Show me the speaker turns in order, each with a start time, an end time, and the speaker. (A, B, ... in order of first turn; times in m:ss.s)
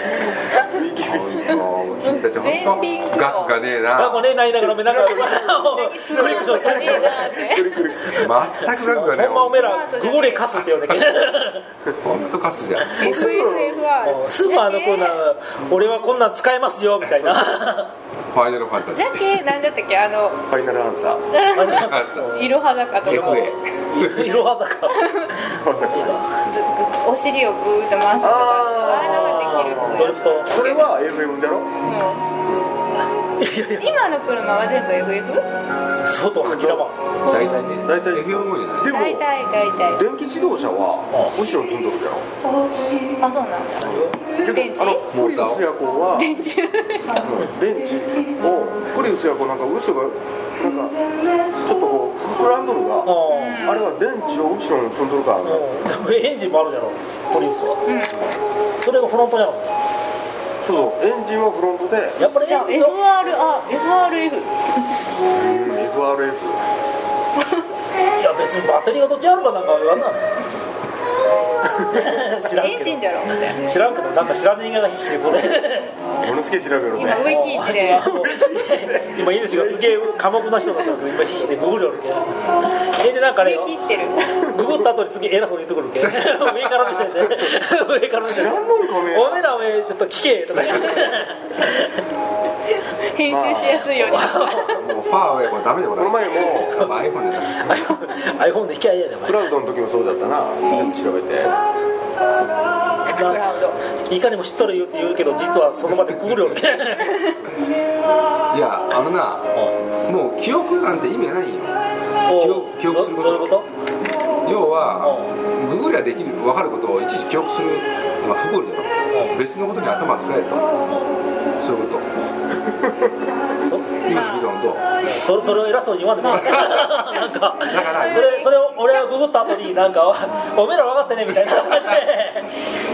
0:00.3-0:01.6 A
0:01.0-0:04.4 B
0:02.0-0:03.5 C
0:03.9-0:07.4 D
0:04.5-0:08.3 A
0:05.7-0:07.8 C
0:08.1-0:09.8 B
0:08.5-0:11.6 D
0:09.5-0:10.6 C
0:10.6-0:11.1 B
0:12.0-0:13.0 B
0:12.9-0:15.2 C
0:13.0-0:13.9 A
0:14.0-0:17.9 D
0:17.1-0:17.6 A
0:18.3-0:19.3 B
0:18.9-0:20.4 C
0:20.5-0:21.2 A
0:21.4-0:23.6 C
0:21.5-0:22.5 D
0:21.6-0:22.3 B
0:23.0-0:24.5 B
0:23.0-0:26.2 D
0:25.0-0:25.3 C
0:25.5-0:26.2 A
0:26.4-0:30.9 C
0:28.2-0:31.7 A
0:29.0-0:30.5 D
0:31.8-0:32.2 C
0:33.4-0:34.0 D
0:33.8-0:35.5 C
0:36.0-0:37.0 D
0:36.4-0:36.9 A
0:37.2-0:38.9 B
0:37.3-0:37.6 C
0:37.8-0:39.3 A
0:38.8-0:40.0 C
0:39.9-0:42.2 A
0:43.2-0:45.1 C
0:43.8-0:44.2 D
0:43.8-0:46.4 A
0:45.1-0:45.7 B
0:46.1-0:47.3 C
0:47.2-0:51.0 A
0:51.6-0:55.8 A
0:53.0-0:53.7 D
0:53.3-0:53.8 C
0:55.4-0:57.8 D
0:57.8-0:58.3 C
0:58.8-0:59.7 D
1:00.6-1:02.2 A
1:02.2-1:03.0 D
1:02.3-1:04.8 C
1:05.3-1:06.6 A
1:08.2-1:10.2 D
1:11.7-1:16.0 D
1:12.5-1:13.7 C
1:16.2-1:20.2 A
1:16.9-1:18.1 C
1:17.0-1:23.7 D
1:23.4-1:24.4 C
1:24.5-1:32.0 D
1:26.0-1:26.5 B
1:28.2-1:29.6 A
1:32.8-1:34.9 C
1:33.3-1:33.9 A
1:34.2-1:34.7 D
1:34.7-1:37.7 B
1:36.0-1:36.9 A
1:37.6-1:39.6 D
1:39.2-1:41.6 A
1:42.3-1:43.4 D
1:43.0-1:43.8 C
1:44.0-1:47.3 D
1:48.5-1:49.5 B
1:50.0-1:53.5 B
1:52.2-1:53.7 D
1:54.4-2:00.7 B
1:55.0-1:55.3 D
2:01.6-2:02.1 B
2:03.6-2:04.0 D
2:04.0-2:04.8 B
2:04.1-2:04.5 C
2:05.0-2:12.5 D
2:06.2-2:07.0 C
2:06.2-2:06.9 B
2:07.6-2:08.5 B
2:07.7-2:08.5 C